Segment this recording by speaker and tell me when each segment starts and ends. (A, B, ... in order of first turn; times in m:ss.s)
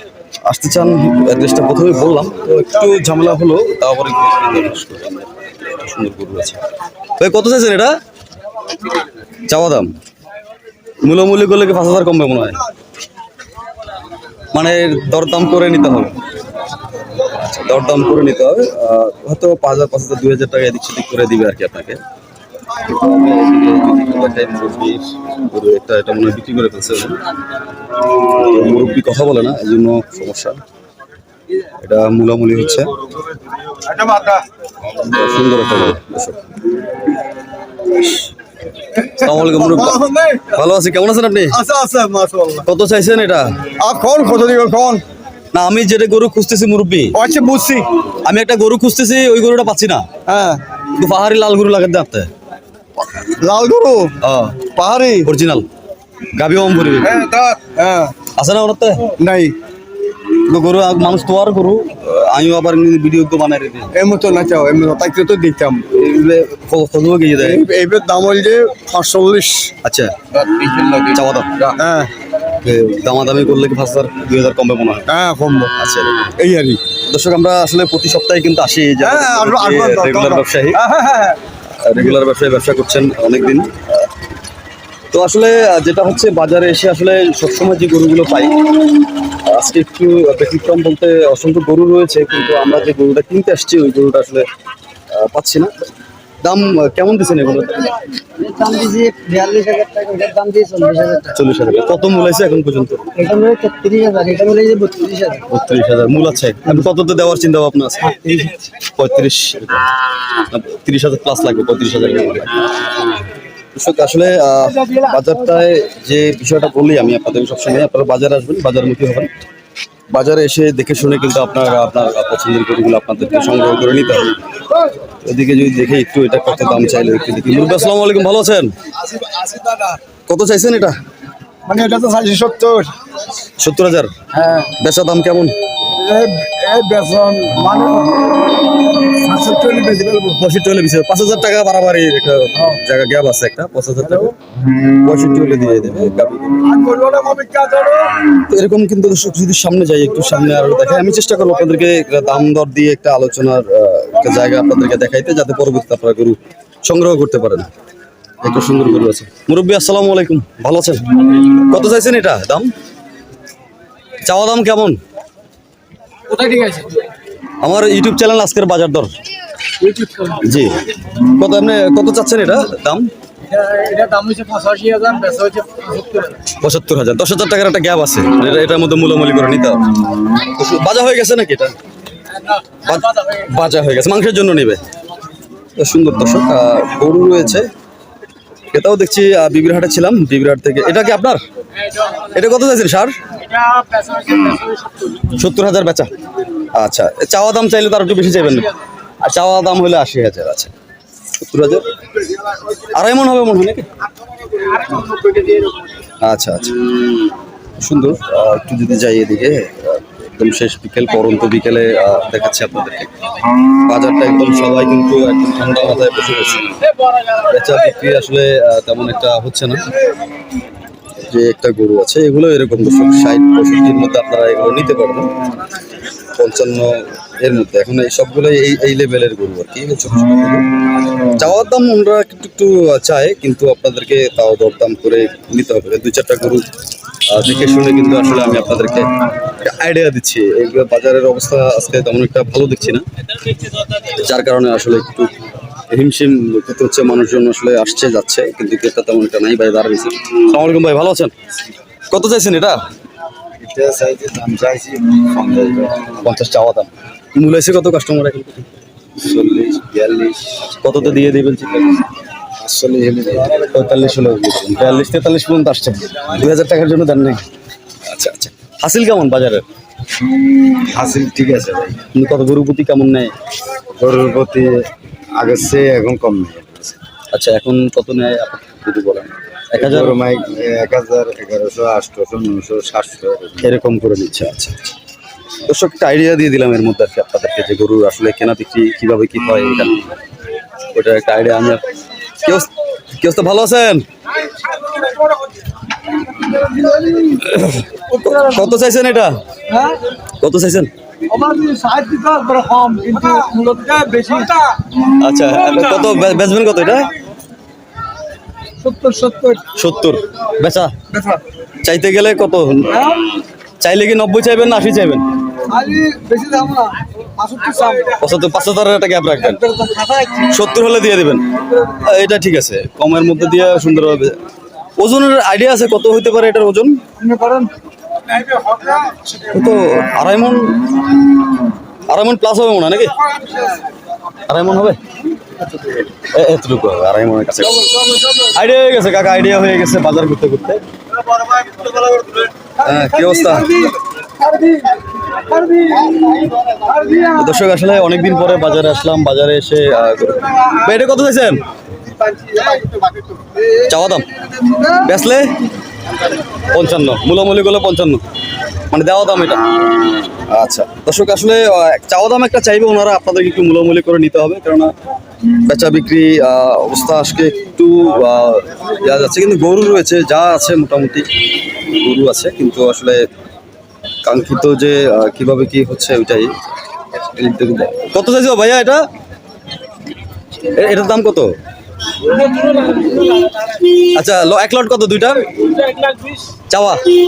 0:00.5-0:06.6 A
0:07.2-0:07.9 A
0:09.5-0:09.9 A
0:11.0-0:12.6 A
0:14.5-0:16.2 A
0:17.2-0:22.0 A
0:22.8-0:27.2 A
0:28.3-0:30.6 A
0:31.8-0:32.9 A
0:33.8-0:34.4 B
0:34.9-0:36.4 A
0:38.0-0:38.3 A
0:39.0-0:41.6 A
0:39.6-0:40.4 B
0:41.5-0:42.6 B
0:42.6-0:43.5 A
0:43.8-0:45.0 B
0:45.5-0:47.2 A
0:47.2-0:47.9 B
0:48.2-0:50.0 A
0:50.3-0:50.6 B
0:50.9-0:52.3 A
0:53.2-0:54.1 B
0:54.2-0:55.7 A
0:54.7-0:55.2 B
0:56.3-0:57.2 A
0:57.1-0:58.1 B
0:58.4-0:59.1 A
0:59.2-0:59.6 B
1:00.5-1:03.9 A
1:04.0-1:05.8 B
1:05.9-1:07.7 A
1:07.5-1:09.7 B
1:09.8-1:11.7 A
1:11.7-1:12.1 B
1:12.6-1:15.0 A
1:15.1-1:15.7 B
1:15.8-1:20.8 A
1:19.0-1:21.4 B
1:21.8-1:24.1 A
1:25.1-1:28.7 A
1:29.3-1:34.5 A
1:35.1-1:35.7 A
1:36.4-1:38.0 A
1:38.4-1:41.2 C
1:38.5-1:41.3 B
1:41.3-1:43.1 A
1:43.2-1:45.4 B
1:43.2-1:45.4 C
1:45.5-1:48.4 A
1:49.0-1:49.9 A
1:50.5-1:52.6 A
1:53.8-1:59.3 A
2:00.1-2:04.3 A
2:05.2-2:08.7 A
2:09.2-2:10.0 B
2:10.3-2:11.0 A
2:11.7-2:12.9 B
2:13.6-2:14.1 A
2:14.7-2:15.5 A
2:16.0-2:18.4 B
2:19.1-2:20.3 B
2:20.2-2:24.4 A
2:25.0-2:26.6 A
2:26.7-2:28.1 B
2:28.4-2:37.7 A
2:38.4-2:42.7 A
2:44.2-2:45.0 A
2:46.3-2:47.1 D
2:47.6-2:49.1 A
2:49.8-2:50.3 D
2:50.3-2:50.8 A
2:51.3-2:53.1 A
2:53.5-2:56.4 D
2:56.4-2:59.9 A
3:00.5-3:01.8 A
3:02.8-3:04.8 A
3:05.8-3:07.7 A
3:08.7-3:11.4 A
3:12.2-3:13.2 A
3:15.2-3:16.1 A
3:16.7-3:18.7 A
3:19.2-3:20.7 A
3:21.4-3:21.9 A
3:22.9-3:23.9 A
3:26.2-3:26.8 A
3:27.8-3:33.1 A
3:33.9-3:36.8 A
3:37.4-3:39.9 A
3:41.3-3:45.3 A
3:46.4-3:50.7 A
3:51.4-3:56.7 A
3:57.3-4:03.0 A
4:04.0-4:05.3 A
4:05.9-4:11.3 A
4:12.1-4:12.8 A
4:13.6-4:16.1 C
4:16.2-4:18.7 A
4:19.2-4:20.6 C
4:20.8-4:22.1 A
4:22.6-4:23.7 C
4:23.6-4:27.4 A
4:28.1-4:29.6 A
4:30.9-4:32.0 C
4:32.1-4:33.3 A
4:34.0-4:34.8 C
4:35.4-4:37.0 C
4:37.3-4:40.2 A
4:39.8-4:43.8 C
4:43.6-4:44.8 A
4:45.7-4:50.1 A
4:50.9-4:51.8 A
4:52.4-4:54.0 A
4:55.0-4:55.3 D
4:56.4-4:57.4 D
4:57.4-4:59.4 A
4:59.7-5:00.0 D
5:00.4-5:00.9 A
5:01.3-5:04.8 D
5:05.0-5:07.1 A
5:08.8-5:09.6 D
5:09.7-5:10.9 A
5:11.8-5:13.1 A
5:13.8-5:15.2 A
5:15.7-5:16.7 B
5:15.8-5:18.1 D
5:17.4-5:18.0 B
5:18.2-5:24.4 A
5:19.8-5:20.2 D
5:25.0-5:27.0 A
5:27.2-5:27.7 D
5:29.4-5:30.8 A
5:32.1-5:33.2 A
5:34.5-5:35.0 A
5:36.2-5:40.8 A
5:42.8-5:43.9 A
5:44.4-5:45.0 D
5:45.5-5:46.2 D
5:46.8-5:47.2 D
5:47.1-5:51.6 A
5:53.7-5:54.3 A
5:54.8-5:55.6 A
5:56.7-5:58.2 A
5:58.9-5:59.6 A
6:00.5-6:04.9 A
6:05.6-6:11.3 A
6:11.9-6:13.2 A
6:14.2-6:16.5 A
6:17.3-6:19.0 A
6:20.6-6:21.5 A
6:24.0-6:25.5 A
6:26.7-6:27.1 A